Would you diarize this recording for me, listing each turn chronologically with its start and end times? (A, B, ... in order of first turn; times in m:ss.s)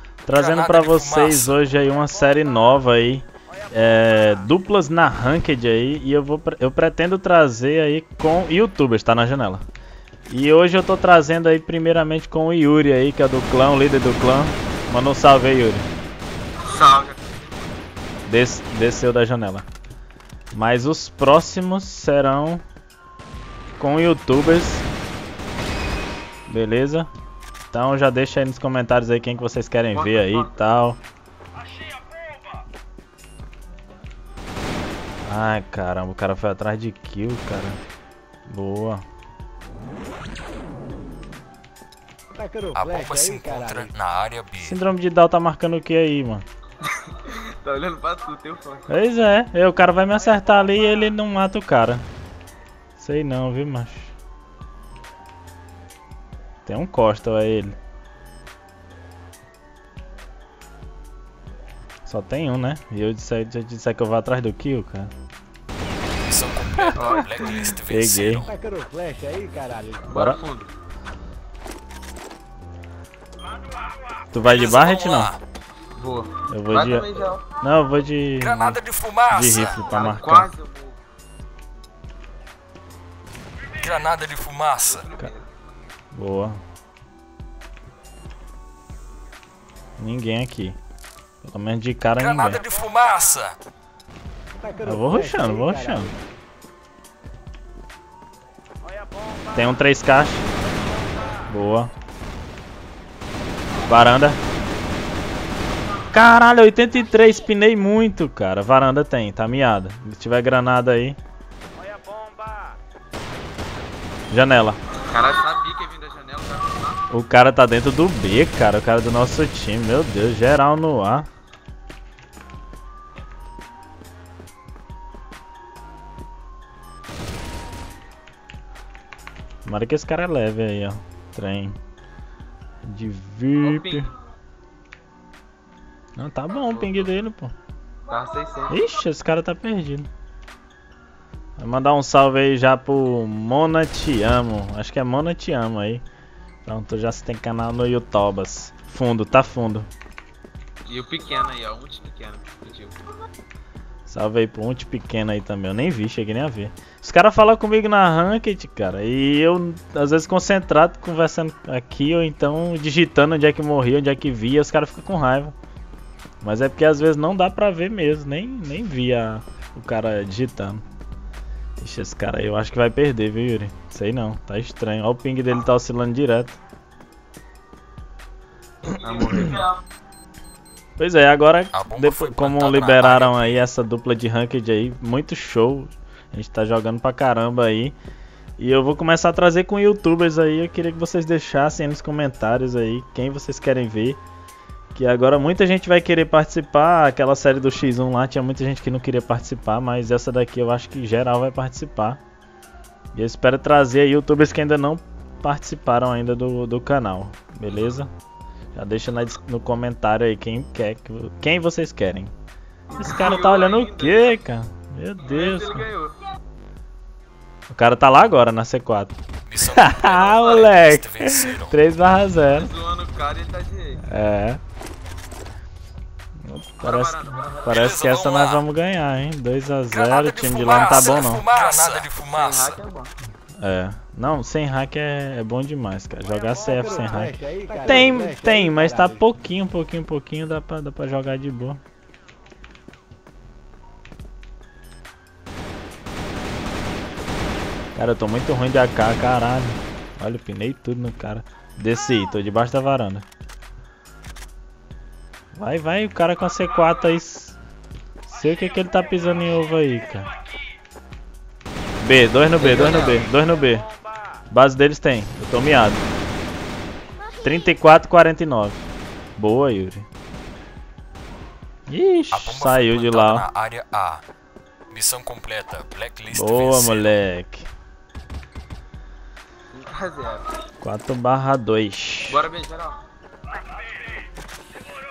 0:00.2-0:09.6 A
0:00.3-0:01.6 B
0:10.3-0:15.9 A
0:16.6-0:17.7 C
0:18.3-0:19.7 A
0:20.5-0:22.6 A
0:23.8-0:24.9 A
0:26.5-0:27.1 A
0:27.7-0:31.0 A
0:29.9-0:30.7 C
0:35.2-0:37.8 A
0:38.5-0:39.0 A
0:42.3-0:43.9 D
0:42.7-0:44.8 B
0:44.6-0:46.4 A
0:47.1-0:48.9 C
0:48.9-0:52.1 A
0:53.0-0:54.1 A
0:56.7-0:57.8 A
1:02.1-1:05.1 A
1:06.3-1:08.6 B
1:07.0-1:07.7 C
1:07.9-1:08.5 A
1:08.5-1:10.1 D
1:10.1-1:10.7 C
1:10.1-1:10.4 A
1:14.3-1:15.3 A
1:14.4-1:15.4 B
1:16.0-1:17.4 C
1:16.5-1:18.8 A
1:18.4-1:19.8 B
1:19.3-1:20.5 A
1:19.9-1:21.0 C
1:23.8-1:25.1 B
1:24.9-1:25.5 C
1:26.1-1:26.6 A
1:30.0-1:30.8 A
1:31.4-1:32.6 A
1:32.2-1:33.6 B
1:34.6-1:36.1 D
1:34.8-1:36.1 A
1:39.5-1:40.5 A
1:41.4-1:41.9 A
1:43.9-1:44.4 A
1:46.1-1:51.2 A
1:54.3-1:54.8 A
1:55.1-1:57.0 C
1:57.1-2:01.3 A
2:09.6-2:11.8 A
2:12.8-2:14.1 A
2:13.6-2:14.1 C
2:16.2-2:17.5 A
2:16.6-2:17.1 C
2:18.1-2:18.8 C
2:18.7-2:20.1 A
2:21.6-2:26.0 A
2:26.6-2:29.9 A
2:30.9-2:33.0 C
2:34.1-2:45.6 A
2:46.4-2:50.8 A
2:51.8-2:56.6 A
2:58.9-2:59.6 C
3:01.0-3:08.0 A
3:01.7-3:03.7 B
3:08.6-3:14.2 A
3:14.9-3:22.2 A
3:23.1-3:28.1 A
3:28.8-3:32.3 A
3:32.9-3:34.4 C
3:33.0-3:35.9 A
3:35.2-3:36.2 C
3:37.7-3:42.7 A
3:39.5-3:41.8 B
3:40.4-3:40.7 C
3:42.4-3:44.0 C
3:44.0-3:44.6 A
3:46.4-3:51.5 A
3:46.8-3:47.9 C
3:47.6-3:48.6 B
3:49.9-3:52.8 B
3:50.7-3:53.1 C
3:53.6-4:01.8 A
3:56.7-3:59.2 D
4:08.0-4:13.3 A
4:15.5-4:17.6 A
4:18.3-4:20.3 A
4:22.0-4:23.9 A
4:22.6-4:23.3 C
4:24.5-4:26.0 A
4:27.4-4:28.8 A
4:29.4-4:30.1 A
4:31.9-4:33.5 A
4:32.3-4:34.2 B
4:34.9-4:37.2 B
4:36.3-4:37.7 A
4:39.7-4:40.5 C
4:40.8-4:42.4 A
4:42.3-4:43.0 C